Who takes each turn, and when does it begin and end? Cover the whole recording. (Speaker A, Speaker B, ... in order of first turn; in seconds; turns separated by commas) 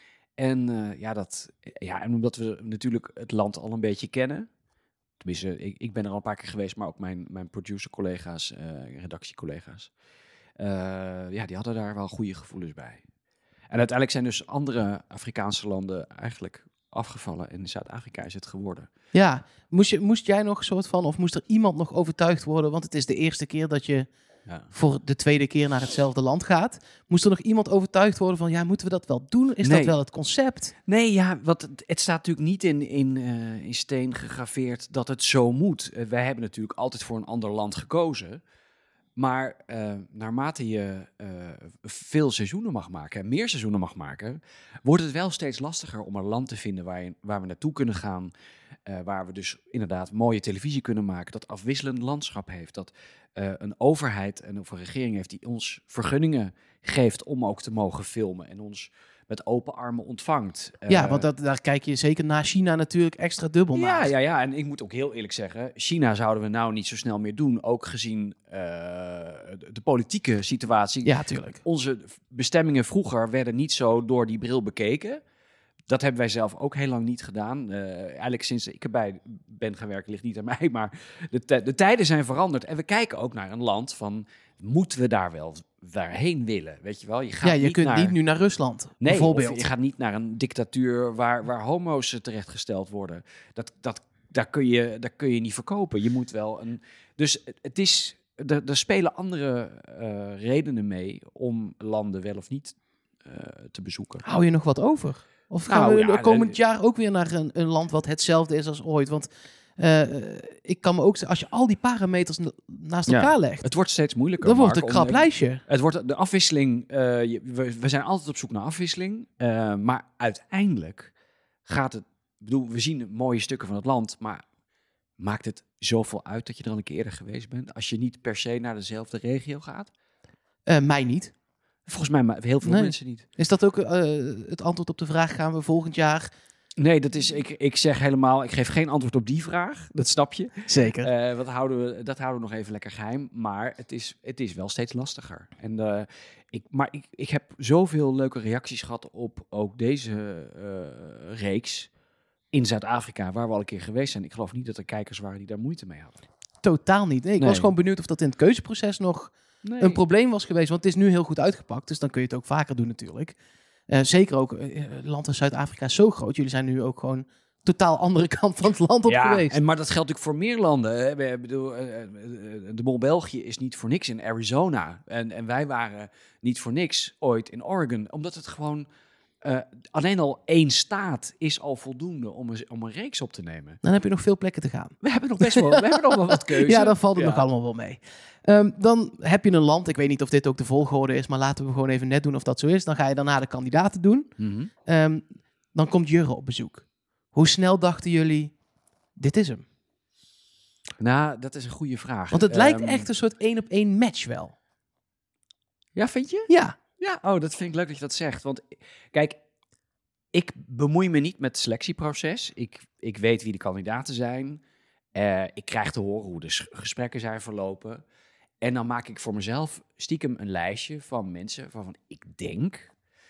Speaker A: 0.4-4.5, Speaker A: 5.2-9.9, Speaker A: 10.6-13.0, Speaker A: 13.7-18.9, Speaker B: 19.1-24.1, Speaker B: 24.7-30.7, Speaker A: 29.6-30.0, Speaker A: 30.9-38.4, Speaker A: 39.2-48.3, Speaker A: 48.9-61.3, Speaker B: 60.9-64.1, Speaker A: 63.7-75.2, Speaker B: 71.0-71.6, Speaker A: 75.9-88.2, Speaker B: 87.4-89.7, Speaker A: 89.0-104.2, Speaker B: 104.2-113.7, Speaker A: 105.7-106.6, Speaker A: 113.1-121.1, Speaker B: 114.4-115.6, Speaker A: 121.7-124.4, Speaker A: 125.2-129.9, Speaker B: 130.7-131.3, Speaker A: 131.9-133.2, Speaker B: 132.6-136.3, Speaker A: 136.8-151.9, Speaker B: 140.7-141.1, Speaker A: 152.5-156.2, Speaker B: 156.6-163.3, Speaker A: 157.4-157.7, Speaker A: 159.6-160.0, Speaker B: 163.9-169.6, Speaker A: 169.1-178.9, Speaker A: 179.4-183.8, Speaker B: 183.8-185.8, Speaker A: 185.0-187.4, Speaker B: 186.3-194.3, Speaker A: 194.4-194.7, Speaker B: 194.8-198.5, Speaker B: 199.2-199.6, Speaker A: 201.0-203.1, Speaker B: 202.3-204.5, Speaker A: 205.9-209.4, Speaker B: 206.5-206.8, Speaker A: 210.3-214.6, Speaker A: 215.1-218.0, Speaker A: 218.6-222.9